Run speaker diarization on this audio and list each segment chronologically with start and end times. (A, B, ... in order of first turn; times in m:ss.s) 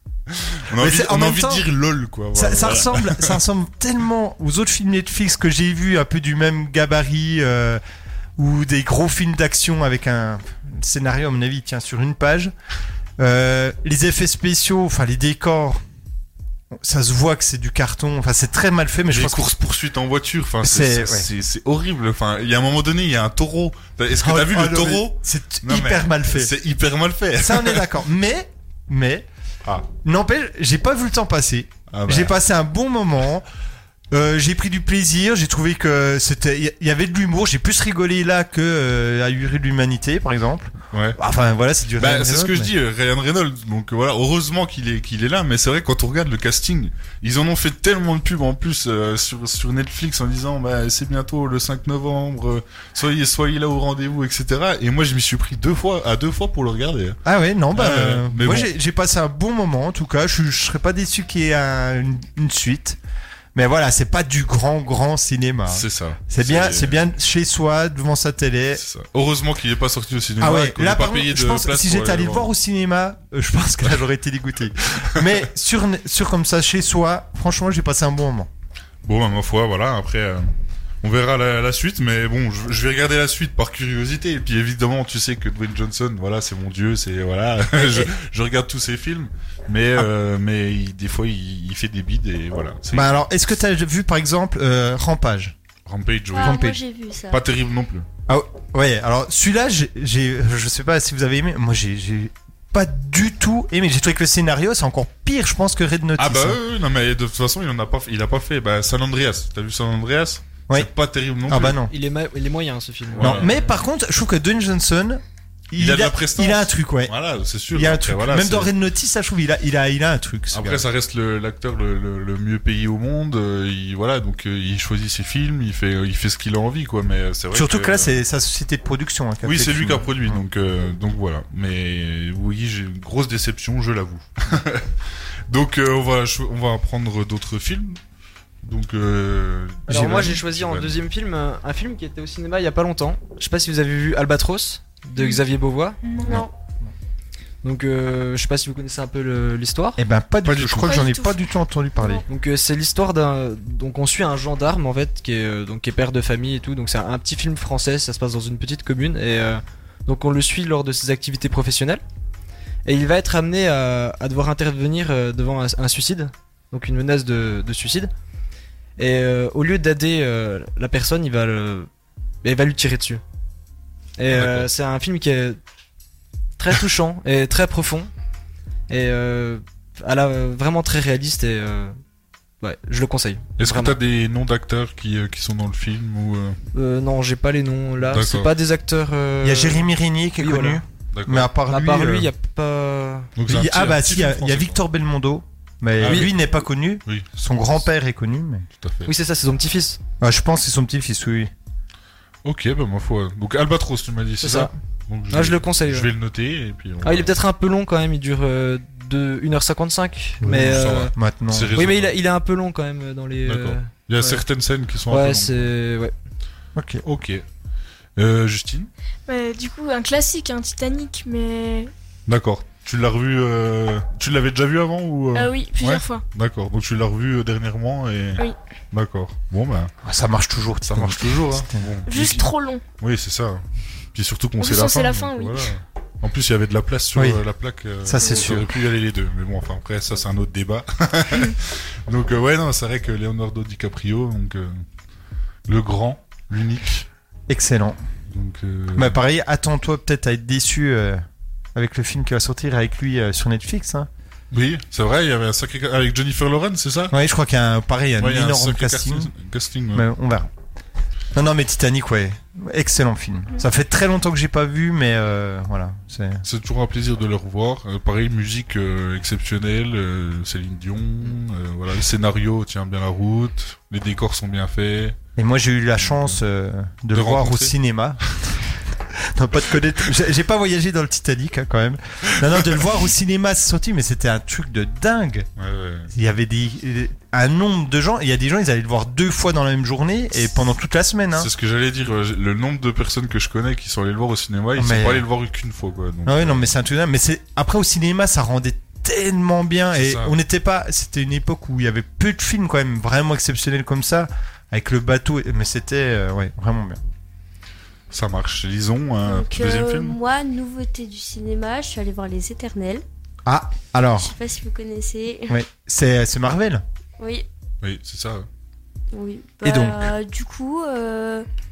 0:00.3-0:03.4 A
0:00.7-0:01.6 B
0:02.3-0:07.8 B
0:08.4-0:12.5 B
0:13.2-0:15.8 B
0:16.7-0:19.5 B
0:19.1-0:28.0 A
0:20.6-0:21.3 B
0:24.1-0:26.5 B
0:27.4-0:29.3 B
0:29.9-0:33.4 B
0:31.9-0:32.4 A
0:34.1-0:42.7 B
0:40.9-0:41.2 A
0:42.0-0:57.2 A
0:57.2-1:03.0 B
0:57.7-0:58.7 A
1:03.5-1:08.8 B
1:05.7-1:07.0 A
1:08.8-1:12.5 A
1:10.4-1:18.5 B
1:14.8-1:15.4 A
1:19.0-1:20.5 A
1:21.0-1:33.2 A
1:27.7-1:28.1 B
1:32.9-1:35.5 B
1:35.8-1:36.6 A
1:36.3-1:37.4 C
1:36.3-1:36.8 B
1:37.3-1:38.0 A
1:38.3-1:46.6 B
1:46.2-1:51.8 A
1:51.4-1:51.9 B
1:51.8-1:53.5 D
1:53.1-1:53.7 A
1:53.2-1:57.1 B
1:55.8-1:58.7 A
1:57.7-2:00.8 B
2:00.5-2:08.2 A
2:07.5-2:10.4 B
2:09.4-2:14.9 A
2:15.5-2:18.0 A
2:18.6-2:21.0 A
2:19.9-2:20.4 B
2:19.9-2:26.3 D
2:25.2-2:25.4 E
2:26.0-2:26.4 E
2:26.2-2:26.5 C
2:27.6-2:30.0 D
2:30.0-2:32.2 B
2:30.4-2:31.1 A
2:30.8-2:31.4 E
2:32.3-2:42.0 D
2:42.8-2:48.1 D
2:49.0-2:51.9 D
2:52.4-2:53.2 D
2:54.2-2:55.6 D
2:54.3-2:54.7 A
2:56.6-2:58.1 D
2:58.9-3:02.0 D
3:02.6-3:04.0 D
3:03.6-3:06.6 A
3:06.7-3:09.9 D
3:08.1-3:08.5 A
3:09.4-3:12.3 B
3:10.4-3:10.8 D
3:11.1-3:11.5 A
3:11.6-3:13.3 D
3:13.4-3:14.8 A
3:13.4-3:18.7 B
3:15.9-3:16.5 A
3:16.0-3:16.3 D
3:18.8-3:19.1 A
3:19.0-3:20.0 D
3:20.2-3:21.5 B
3:22.4-3:27.3 A
3:24.4-3:24.7 D
3:25.3-3:26.1 D
3:27.0-3:31.1 D
3:30.4-3:31.7 B
3:30.5-3:32.2 A
3:31.7-3:34.4 D
3:33.4-3:35.7 A
3:35.1-3:36.1 D
3:36.7-3:37.0 B
3:37.0-3:37.4 A
3:38.2-3:38.9 A
3:39.3-3:41.9 E
3:42.3-3:49.9 A
3:45.3-3:46.2 E
3:50.0-3:51.9 B
3:50.9-3:52.5 A
3:52.1-3:52.8 E
3:53.0-4:04.8 A
3:54.6-3:55.7 E
3:57.1-3:57.4 B
3:58.0-3:58.7 B
4:05.7-4:07.1 A
4:07.5-4:08.0 B
4:08.3-4:09.2 A
4:08.9-4:11.2 B
4:11.7-4:14.1 B
4:14.5-4:17.1 A
4:17.1-4:19.3 B
4:18.2-4:20.0 A
4:19.9-4:20.5 B
4:21.3-4:26.4 B
4:26.4-4:35.2 A
4:35.4-4:45.5 B
4:36.0-4:36.4 A
4:37.1-4:37.7 A
4:38.3-4:38.6 A
4:42.4-4:42.8 A
4:45.6-4:46.1 A
4:46.1-4:51.5 B
4:51.3-4:56.7 A
4:54.8-4:55.2 B
4:56.2-5:07.0 B
4:59.9-5:00.4 A
5:08.1-5:10.2 A
5:09.2-5:13.0 C
5:13.4-5:14.3 B
5:14.1-5:15.6 C
5:15.5-5:16.8 B
5:17.2-5:17.5 C
5:17.8-5:18.5 A
5:19.1-5:21.5 C
5:19.6-5:20.1 B